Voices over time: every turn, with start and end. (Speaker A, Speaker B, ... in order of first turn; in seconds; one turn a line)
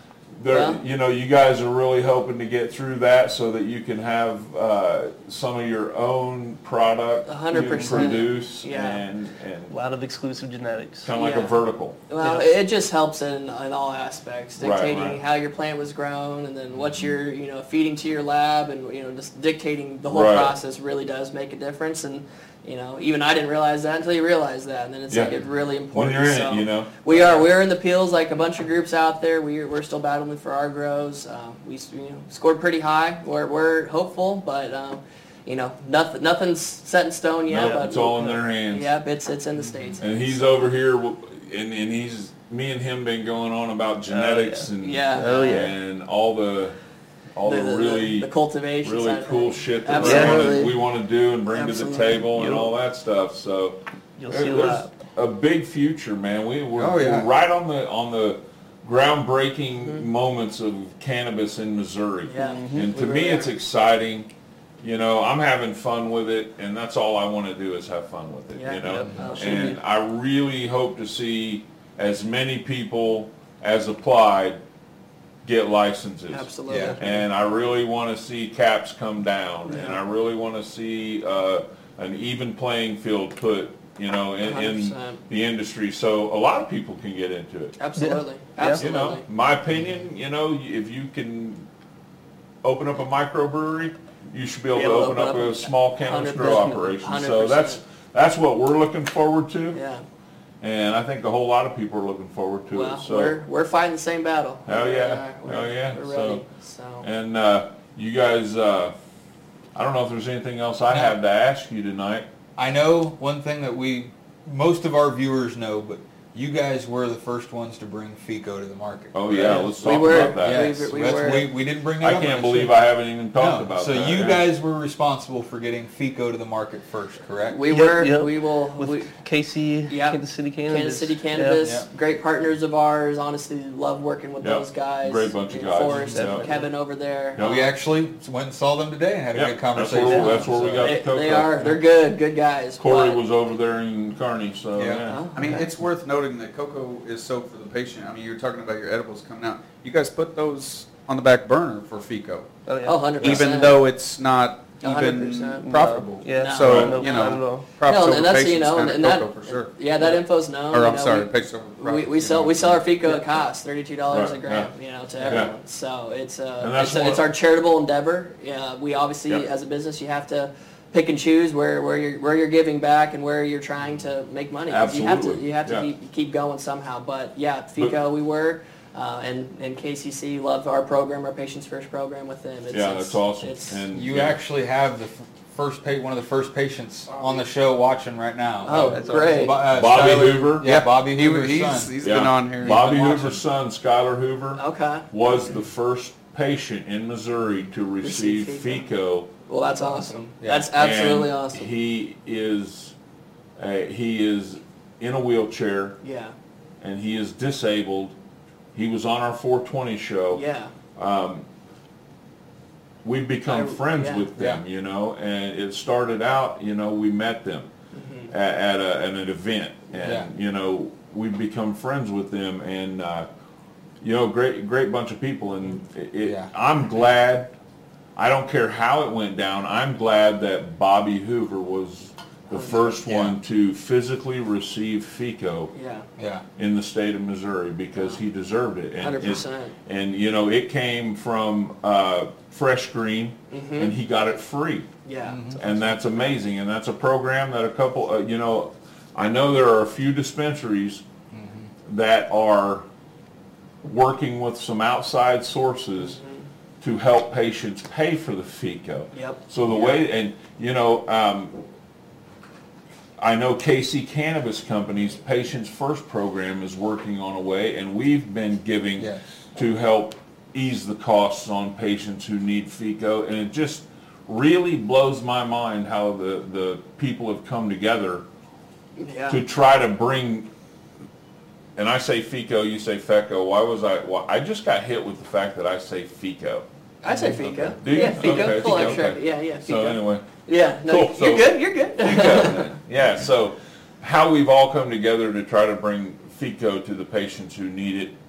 Speaker A: 0.4-9.8
Speaker B: 0.5-0.8
Speaker B: 7.3-9.0
Speaker C: 7.5-8.2
Speaker C: 9.7-11.1
Speaker A: 11.0-12.0
Speaker B: 11.1-40.7
Speaker C: 12.2-12.5
Speaker A: 14.6-15.2
Speaker A: 20.1-20.5
Speaker A: 25.9-27.4
Speaker A: 37.5-38.9
Speaker C: 37.5-38.4
Speaker D: 39.6-40.0
Speaker A: 40.0-46.8
Speaker C: 44.1-45.7
Speaker B: 44.8-45.7
Speaker A: 47.4-48.3
Speaker B: 47.4-50.8
Speaker A: 48.8-53.8
Speaker C: 50.0-50.7
Speaker B: 51.5-52.3
Speaker C: 52.3-52.7
Speaker C: 54.2-55.0
Speaker A: 54.3-64.3
Speaker D: 56.8-57.3
Speaker B: 62.2-63.5
Speaker C: 62.4-62.9
Speaker A: 64.8-74.6
Speaker B: 68.5-69.8
Speaker C: 68.8-69.8
Speaker A: 75.4-76.5
Speaker B: 76.3-77.0
Speaker D: 76.7-77.0
Speaker C: 76.8-77.1
Speaker A: 77.0-87.8
Speaker C: 79.7-80.0
Speaker B: 84.4-85.2
Speaker B: 87.8-89.2
Speaker C: 88.0-88.8
Speaker A: 88.8-91.7
Speaker D: 89.7-90.0
Speaker A: 92.6-99.8
Speaker B: 94.7-97.8
Speaker C: 96.4-96.9
Speaker B: 99.7-100.0
Speaker A: 100.6-103.4
Speaker B: 102.7-107.1
Speaker A: 104.7-106.4
Speaker A: 107.0-108.9
Speaker A: 109.8-112.3
Speaker D: 110.9-111.2
Speaker D: 112.6-127.6
Speaker A: 119.1-120.7
Speaker B: 119.8-121.5
Speaker A: 122.0-124.5
Speaker B: 127.5-129.1
Speaker C: 127.7-131.7
Speaker B: 129.9-137.6
Speaker D: 131.6-131.9
Speaker A: 134.4-136.5
Speaker D: 135.9-136.2
Speaker C: 136.1-136.7
Speaker A: 137.4-137.7
Speaker D: 137.4-140.9
Speaker A: 139.3-141.8
Speaker B: 140.8-143.2
Speaker A: 142.8-145.3
Speaker D: 144.8-145.7
Speaker B: 145.1-145.5
Speaker E: 145.3-152.5
Speaker C: 152.7-153.2
Speaker B: 152.8-153.8
Speaker E: 153.2-162.9
Speaker B: 154.8-155.7
Speaker C: 155.6-157.7
Speaker B: 156.3-183.8
Speaker A: 156.6-157.0
Speaker A: 164.1-164.7
Speaker C: 165.2-165.5
Speaker A: 165.3-165.5
Speaker A: 166.6-167.2
Speaker A: 174.7-175.9
Speaker A: 182.7-184.4
Speaker D: 183.9-192.0
Speaker B: 188.6-189.6
Speaker C: 188.9-189.6
Speaker A: 189.7-190.8
Speaker E: 190.6-193.3
Speaker A: 192.0-199.3
Speaker D: 192.6-193.4
Speaker B: 194.6-195.1
Speaker B: 198.0-198.9
Speaker B: 199.5-201.7
Speaker D: 200.4-200.7
Speaker A: 200.8-202.9
Speaker A: 203.6-206.0
Speaker B: 206.0-206.3
Speaker A: 206.8-208.1
Speaker A: 208.7-210.4
Speaker B: 210.3-210.7
Speaker A: 211.0-211.5
Speaker A: 213.0-217.7
Speaker B: 213.5-214.3
Speaker D: 214.4-214.6
Speaker B: 217.9-218.3
Speaker A: 218.3-223.3
Speaker D: 220.0-220.3
Speaker A: 224.0-227.5
Speaker D: 226.2-226.5
Speaker A: 228.2-235.7
Speaker B: 232.5-233.0
Speaker D: 233.1-233.4
Speaker B: 235.7-236.1
Speaker D: 236.2-236.4
Speaker A: 236.6-244.9
Speaker B: 238.0-238.2
Speaker B: 239.0-239.7
Speaker B: 243.5-243.9
Speaker B: 245.1-246.3
Speaker D: 245.2-245.6
Speaker A: 245.6-251.0
Speaker D: 251.3-251.7
Speaker A: 251.9-252.8
Speaker A: 253.8-256.2
Speaker B: 256.0-256.4
Speaker A: 256.8-261.6
Speaker B: 259.1-259.4
Speaker D: 259.7-260.0
Speaker A: 263.2-278.2
Speaker B: 279.0-279.4
Speaker A: 279.3-280.5
Speaker A: 281.8-286.7
Speaker B: 287.0-292.7
Speaker D: 287.1-288.9
Speaker A: 287.8-290.2
Speaker A: 290.9-298.1